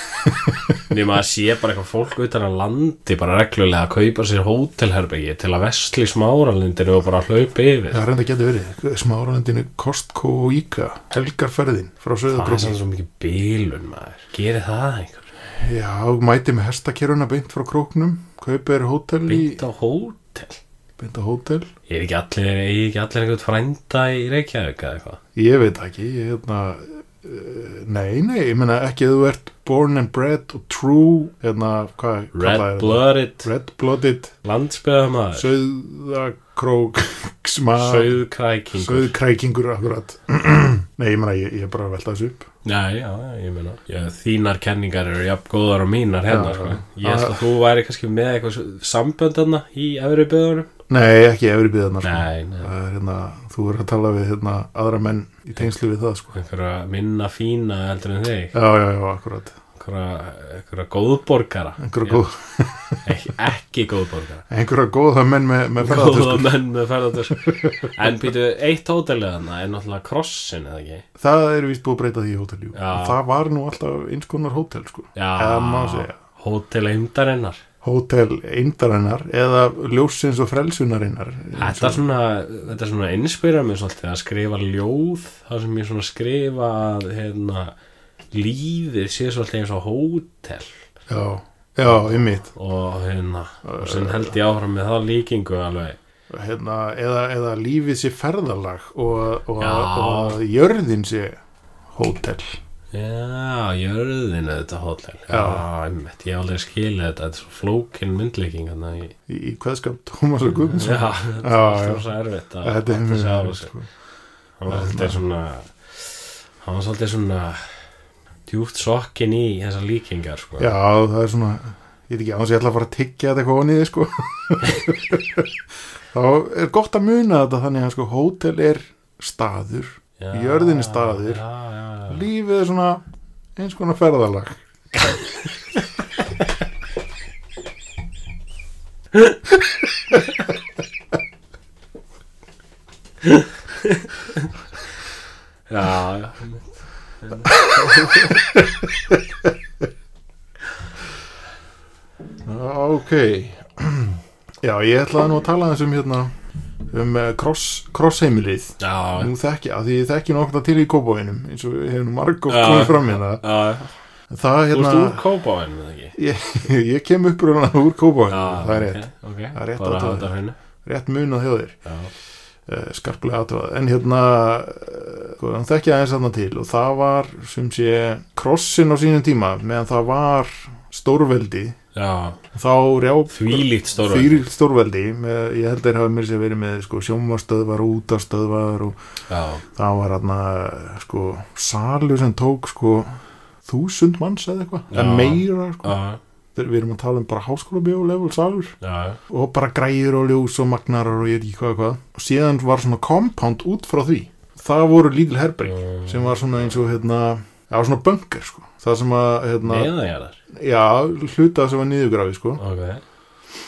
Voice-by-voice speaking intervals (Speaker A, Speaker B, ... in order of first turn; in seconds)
Speaker A: 0.8-8.0, 12.3-15.3, 19.3-20.6, 21.9-25.2, 32.3-33.5, 34.4-35.5, 37.8-39.1, 42.6-50.7, 52.0-52.7, 56.3-58.5, 59.8-62.2, 63.0-64.5, 65.8-71.0, 72.8-73.2, 75.2-77.6, 81.6-87.7, 88.3-90.8, 91.9-96.0, 99.6-100.4, 102.9-109.1, 110.7-113.7, 114.6-117.8, 118.5-120.7, 130.2-132.2, 143.2-144.5, 145.7-146.7, 147.2-148.3, 158.8-159.3, 162.5-163.9, 164.7-166.2, 168.3-170.6, 171.8-172.1, 181.9-182.4, 183.3-184.4, 189.3-189.7, 194.9-196.2, 198.8-199.2, 205.7-206.4, 209.6-210.4, 212.6-213.0
Speaker B: 7.9-12.8, 15.6-19.6, 21.0-21.7, 25.4-34.3, 35.3-38.1, 38.8-42.5, 46.3-47.4, 50.9-56.4, 58.5-59.6, 61.8-63.0, 64.5-66.5, 67.3-67.9, 71.2-76.2, 77.8-82.0, 91.1-92.5, 93.6-94.4, 96.3-101.4, 101.9-102.6, 105.3-105.7, 109.3-112.0, 112.6-113.9, 114.7-115.2, 120.6-125.5, 126.1-131.4, 132.1-133.0, 133.6-135.2, 147.5-149.5, 152.4-156.3, 156.9-163.4, 164.3-165.2, 166.2-171.8, 172.7-181.8, 182.5-189.0, 189.8-195.9, 196.6-198.8, 199.3-209.9, 210.5-212.6